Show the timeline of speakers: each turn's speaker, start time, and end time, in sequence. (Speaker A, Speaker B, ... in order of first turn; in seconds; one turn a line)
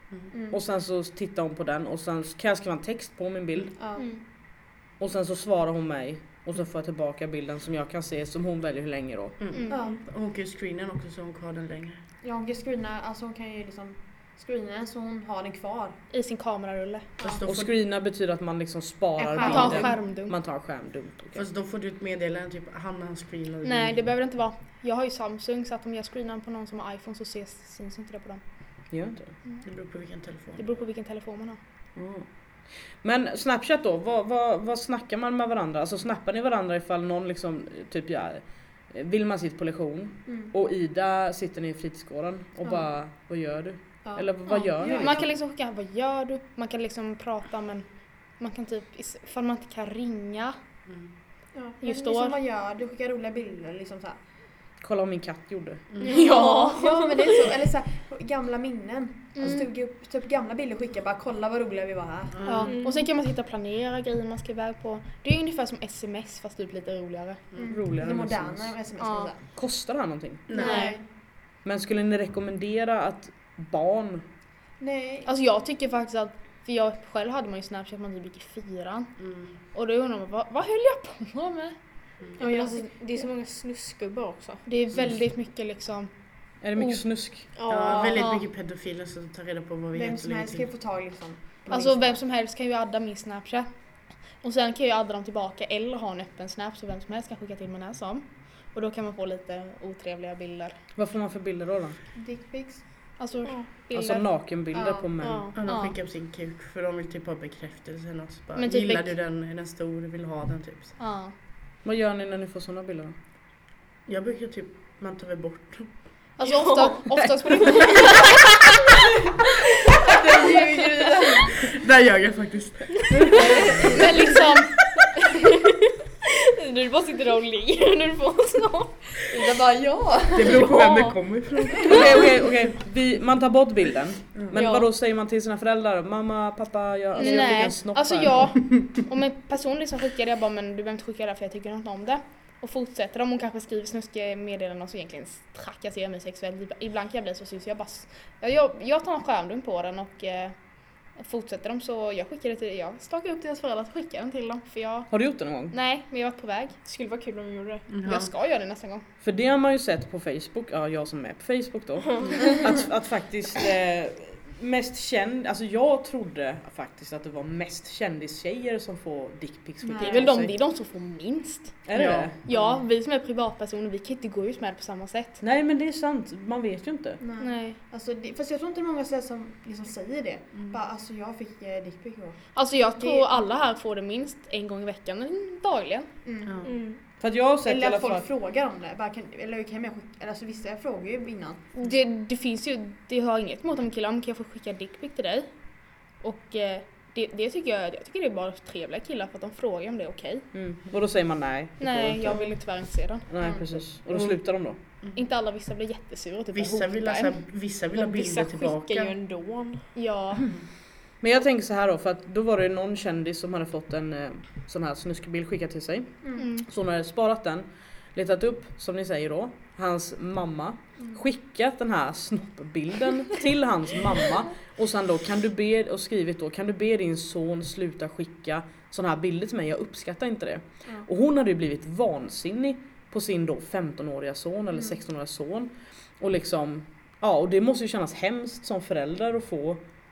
Speaker A: 0.3-0.6
Speaker B: 0.5-3.7
Speaker A: 3.8-4.1
Speaker C: 4.0-4.2
Speaker B: 5.0-9.5
Speaker D: 9.4-12.0
Speaker C: 9.5-9.8
Speaker A: 9.7-10.0
Speaker A: 12.2-16.0
Speaker C: 16.1-17.1
Speaker D: 17.2-17.7
Speaker B: 17.4-21.4
Speaker A: 19.2-19.9
Speaker C: 19.3-20.3
Speaker D: 21.3-24.0
Speaker C: 23.6-28.4
Speaker B: 28.9-29.3
Speaker D: 29.6-30.7
Speaker C: 30.6-31.6
Speaker B: 31.9-32.3
Speaker B: 33.0-45.2
Speaker C: 44.5-47.9
Speaker A: 44.8-45.1
Speaker C: 48.4-50.5
Speaker A: 51.5-54.2
Speaker C: 51.8-52.4
Speaker B: 54.8-56.0
Speaker E: 56.0-57.4
Speaker A: 56.0-62.5
Speaker C: 59.3-59.7
Speaker D: 62.3-62.7
Speaker C: 62.4-67.4
Speaker E: 62.6-63.0
Speaker A: 67.5-69.4
Speaker B: 67.7-68.7
Speaker C: 69.0-69.3
Speaker B: 69.5-70.5
Speaker D: 70.5-70.8
Speaker A: 70.5-71.0
Speaker C: 70.5-70.9
Speaker B: 71.6-74.2
Speaker A: 74.8-75.3
Speaker C: 75.2-79.1
Speaker D: 79.2-79.5
Speaker C: 79.7-81.7
Speaker E: 82.4-84.6
Speaker A: 82.4-82.9
Speaker C: 84.7-86.1
Speaker B: 86.6-87.5
Speaker C: 86.7-87.0
Speaker E: 87.5-88.2
Speaker D: 87.7-90.7
Speaker A: 87.8-88.3
Speaker C: 88.1-88.5
Speaker A: 89.9-92.2
Speaker C: 91.7-93.7
Speaker C: 94.4-100.7
Speaker B: 100.9-102.0
Speaker A: 102.1-102.8
Speaker C: 103.2-104.3
Speaker E: 103.4-103.7
Speaker B: 103.9-105.5
Speaker A: 104.7-105.2
Speaker E: 105.2-105.6
Speaker D: 105.5-111.0
Speaker C: 105.6-106.0
Speaker C: 108.5-109.2
Speaker C: 111.0-111.3
Speaker B: 111.8-113.1
Speaker D: 114.0-115.9
Speaker C: 116.4-118.1
Speaker E: 116.4-118.4
Speaker A: 120.0-121.6
Speaker D: 121.7-123.9
Speaker A: 123.8-124.2
Speaker C: 123.9-124.8
Speaker E: 126.4-129.5
Speaker A: 129.3-130.6
Speaker D: 130.3-132.3
Speaker E: 130.6-131.2
Speaker B: 131.8-138.5
Speaker E: 134.5-134.9
Speaker E: 137.1-137.7
Speaker C: 137.2-150.5
Speaker C: 151.1-156.8
Speaker B: 155.1-155.8
Speaker E: 156.8-157.9
Speaker D: 157.9-158.3
Speaker C: 158.0-159.0
Speaker B: 159.2-170.5
Speaker A: 169.9-170.3
Speaker C: 170.0-171.8
Speaker B: 171.8-172.3
Speaker D: 171.9-172.3
Speaker C: 172.4-175.4
Speaker B: 175.4-177.2
Speaker A: 177.2-183.4
Speaker C: 177.4-177.8
Speaker C: 182.5-186.1
Speaker A: 186.2-186.6
Speaker E: 186.6-187.0
Speaker B: 187.0-188.3
Speaker A: 187.6-191.7
Speaker C: 191.7-195.5
Speaker C: 196.2-200.5
Speaker B: 200.5-204.8
Speaker C: 201.8-203.8
Speaker C: 205.1-208.4
Speaker D: 206.5-209.2
Speaker E: 208.5-209.8
Speaker C: 209.9-210.5
Speaker B: 211.2-239.8
Speaker C: 216.3-216.7